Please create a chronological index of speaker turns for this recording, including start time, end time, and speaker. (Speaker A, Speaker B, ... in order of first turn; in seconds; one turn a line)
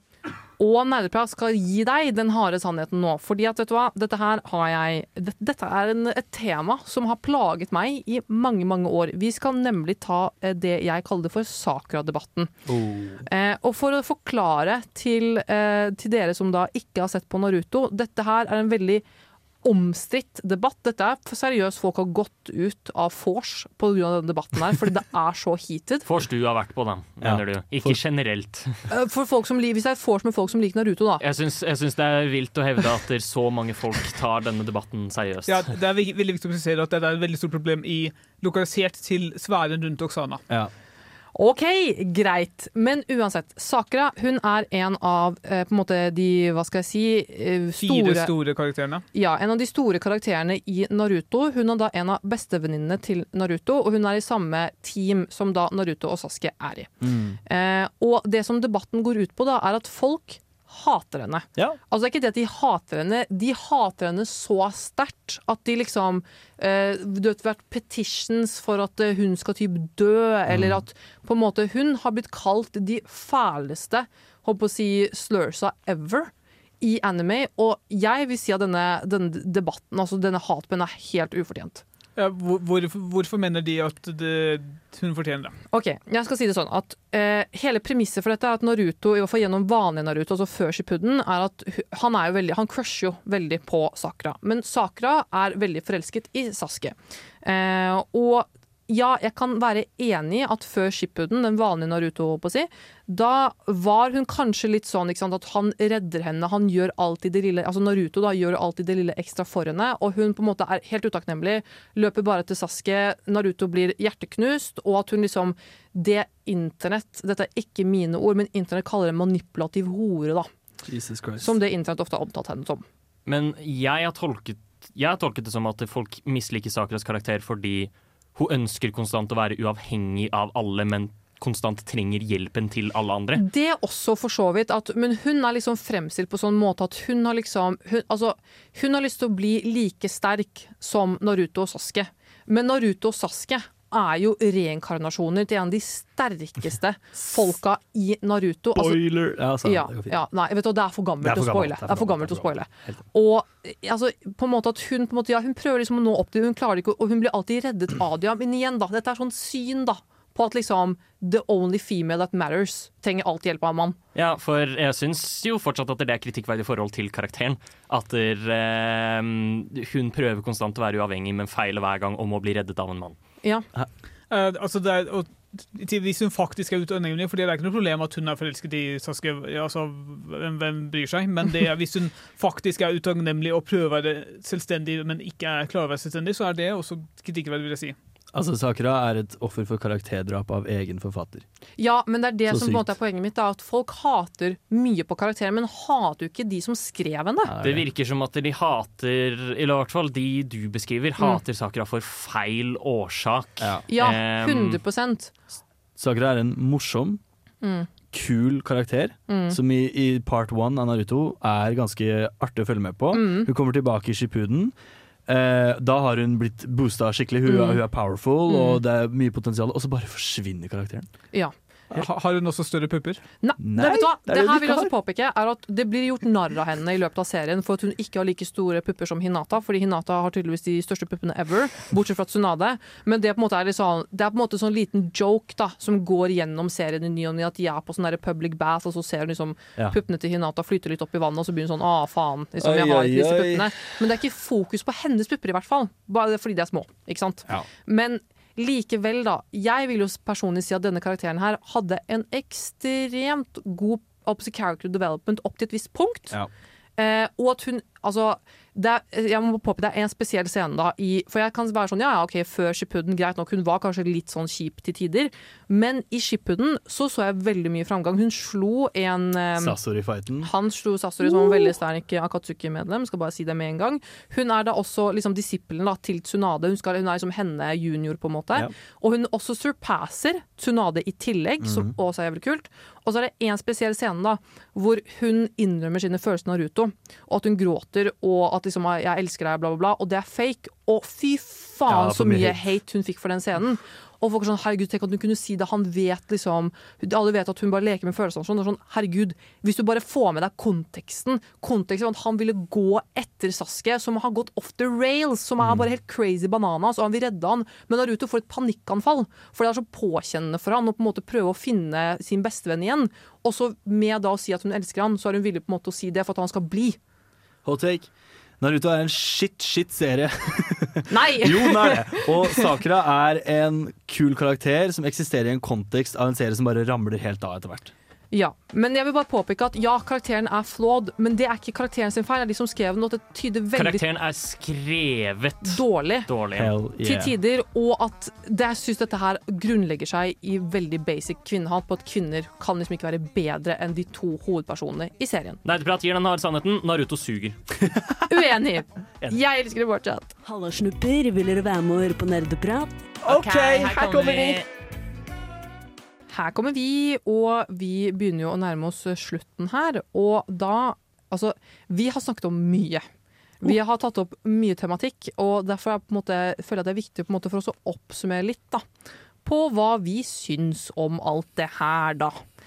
Speaker A: 0.6-12.5
Speaker B: 12.7-13.2
Speaker A: 13.2-19.0
Speaker A: 19.6-26.1
Speaker C: 26.0-28.8
Speaker B: 27.2-28.0
Speaker A: 28.9-31.2
Speaker C: 31.2-35.7
Speaker D: 35.5-40.4
Speaker A: 41.3-48.3
Speaker D: 47.8-49.0
Speaker A: 49.1-56.9
Speaker B: 57.0-57.4
Speaker A: 57.5-81.8
Speaker B: 70.5-70.8
Speaker D: 82.2-85.5
Speaker A: 85.7-120.5
Speaker B: 120.8-121.5
Speaker A: 121.4-122.8
Speaker C: 123.2-133.4
Speaker A: 133.4-149.0
Speaker B: 148.7-150.2
Speaker A: 149.6-164.0
Speaker B: 151.2-153.0
Speaker C: 164.1-173.2
Speaker D: 174.3-187.9
Speaker B: 188.3-191.4
Speaker A: 191.8-197.5
Speaker B: 192.5-192.9
Speaker B: 197.4-197.8
Speaker C: 197.6-204.8
Speaker A: 203.9-205.3
Speaker B: 206.0-207.2
Speaker A: 207.6-207.9
Speaker B: 208.1-214.7
Speaker A: 209.3-209.6
Speaker A: 213.1-213.5
Speaker B: 215.3-221.1
Speaker A: 217.4-217.8
Speaker A: 218.5-218.8
Speaker D: 221.9-223.2
Speaker A: 223.4-256.3
Speaker B: 223.6-224.9
Speaker B: 242.6-243.9
Speaker A: 257.0-269.8
Speaker B: 269.6-270.5
Speaker A: 270.4-317.0
Speaker B: 271.2-271.7
Speaker B: 281.6-281.9
Speaker B: 291.9-292.6
Speaker B: 305.6-305.9
Speaker B: 317.6-318.1
Speaker B: 318.6-327.9
Speaker A: 321.1-322.7
Speaker A: 328.3-334.0
Speaker C: 333.7-336.7
Speaker A: 335.6-336.3
Speaker B: 336.5-337.3
Speaker A: 337.0-345.6
Speaker C: 345.6-347.6
Speaker A: 348.3-350.3
Speaker E: 350.4-354.6
Speaker B: 353.2-354.6
Speaker A: 356.3-363.0
Speaker A: 363.6-368.8
Speaker A: 369.4-372.4